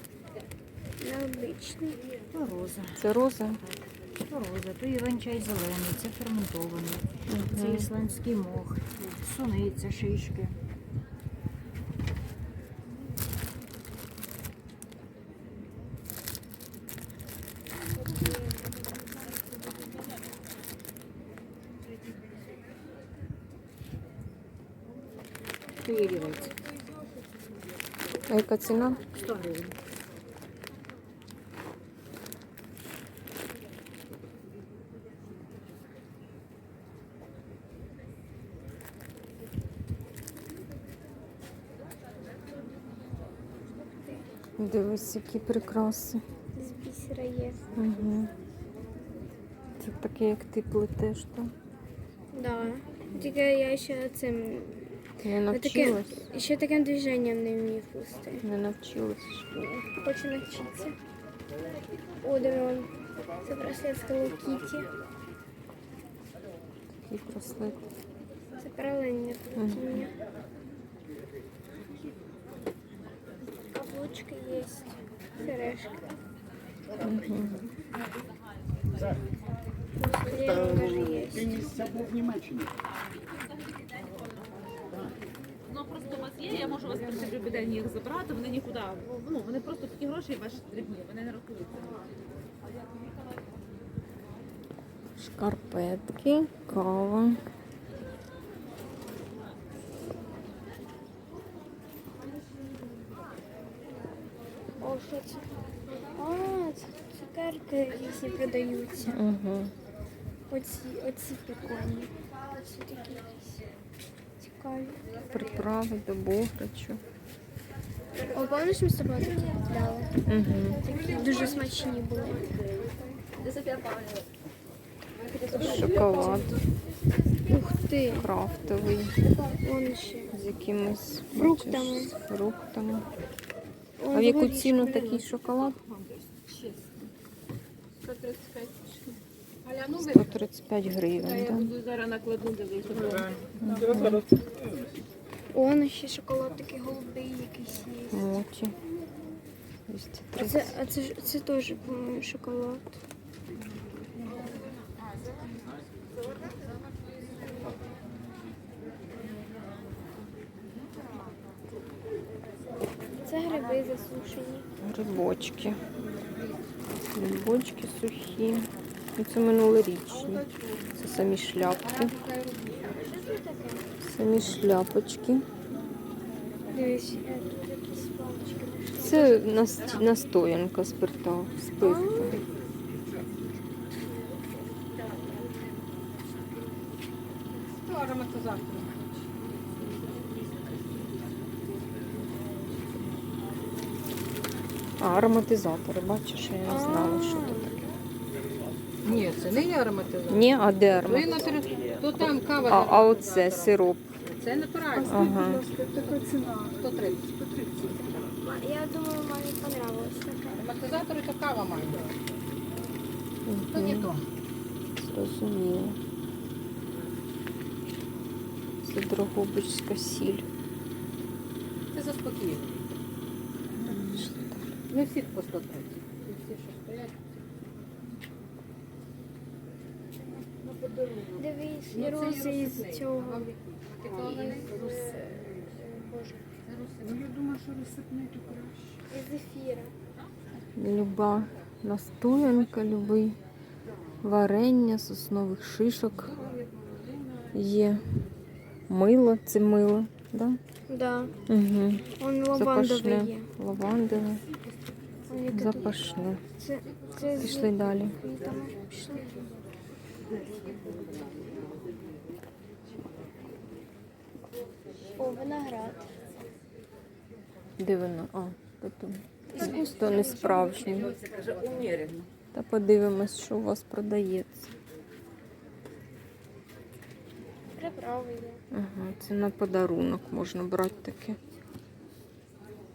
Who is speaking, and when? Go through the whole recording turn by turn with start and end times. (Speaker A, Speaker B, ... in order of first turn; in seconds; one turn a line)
Speaker A: 1.0-2.0
Speaker B: 2.3-3.0
Speaker C: 3.0-3.6
Speaker B: 3.6-10.6
Speaker C: 7.3-7.9
Speaker B: 25.8-26.6
Speaker C: 28.3-29.0
Speaker B: 29.1-29.7
Speaker C: 44.6-46.2
Speaker A: 46.6-47.7
Speaker C: 47.8-48.3
Speaker C: 49.8-51.5
Speaker A: 52.3-54.9
Speaker C: 55.2-56.3
Speaker A: 55.5-58.4
Speaker C: 58.4-59.6
Speaker A: 59.6-61.0
Speaker A: 62.2-62.9
Speaker A: 63.4-64.9
Speaker C: 67.1-67.8
Speaker A: 68.6-70.1
Speaker C: 69.6-70.1
Speaker A: 73.7-76.0
Speaker C: 77.0-77.6
Speaker A: 80.0-81.9
Speaker D: 85.7-92.0
Speaker C: 95.2-97.4
Speaker A: 104.8-105.6
Speaker A: 106.1-109.2
Speaker C: 109.1-109.7
Speaker A: 110.5-113.7
Speaker A: 114.4-115.2
Speaker C: 115.3-117.0
Speaker A: 118.3-120.2
Speaker C: 120.3-120.8
Speaker A: 120.8-122.7
Speaker A: 125.5-126.5
Speaker C: 125.5-126.6
Speaker A: 127.4-128.3
Speaker C: 128.2-129.2
Speaker A: 129.5-130.3
Speaker C: 130.3-133.1
Speaker A: 131.3-132.1
Speaker A: 134.0-135.2
Speaker C: 134.1-135.8
Speaker B: 136.4-136.8
Speaker D: 138.1-138.8
Speaker D: 139.7-140.2
Speaker C: 140.0-141.7
Speaker D: 141.2-143.4
Speaker C: 143.6-144.3
Speaker A: 145.5-148.3
Speaker C: 148.1-148.7
Speaker C: 149.9-150.7
Speaker A: 150.4-153.0
Speaker A: 163.2-164.7
Speaker C: 164.8-165.8
Speaker C: 167.2-170.4
Speaker C: 171.0-172.1
Speaker A: 173.0-173.9
Speaker C: 174.0-175.4
Speaker A: 176.7-180.0
Speaker C: 179.0-182.4
Speaker A: 181.8-182.4
Speaker B: 187.7-189.1
Speaker C: 195.0-197.8
Speaker A: 196.7-197.8
Speaker B: 199.0-200.5
Speaker C: 200.3-201.6
Speaker B: 201.0-208.3
Speaker A: 201.6-201.9
Speaker C: 202.7-204.1
Speaker C: 205.1-205.6
Speaker A: 208.4-210.7
Speaker B: 210.6-212.1
Speaker C: 213.5-214.1
Speaker B: 213.7-214.2
Speaker C: 215.0-216.0
Speaker C: 218.8-220.5
Speaker B: 221.9-222.9
Speaker B: 223.8-224.3
Speaker C: 224.1-224.7
Speaker B: 224.9-227.2
Speaker B: 230.5-235.5
Speaker A: 231.4-233.6
Speaker A: 234.1-236.5
Speaker D: 236.7-237.2
Speaker B: 237.0-239.0
Speaker A: 239.1-239.9
Speaker C: 240.8-243.4
Speaker C: 244.2-246.3
Speaker C: 247.5-248.0
Speaker C: 248.9-250.6
Speaker A: 250.9-251.3
Speaker C: 251.5-254.4
Speaker A: 252.2-253.5
Speaker A: 255.3-256.0
Speaker C: 255.5-256.4
Speaker A: 256.6-259.5
Speaker C: 257.4-258.2
Speaker B: 260.4-261.6
Speaker A: 265.2-266.1
Speaker C: 267.8-271.1
Speaker A: 269.5-270.8
Speaker B: 269.6-272.3
Speaker C: 272.5-274.7
Speaker A: 277.8-278.6
Speaker C: 278.7-281.4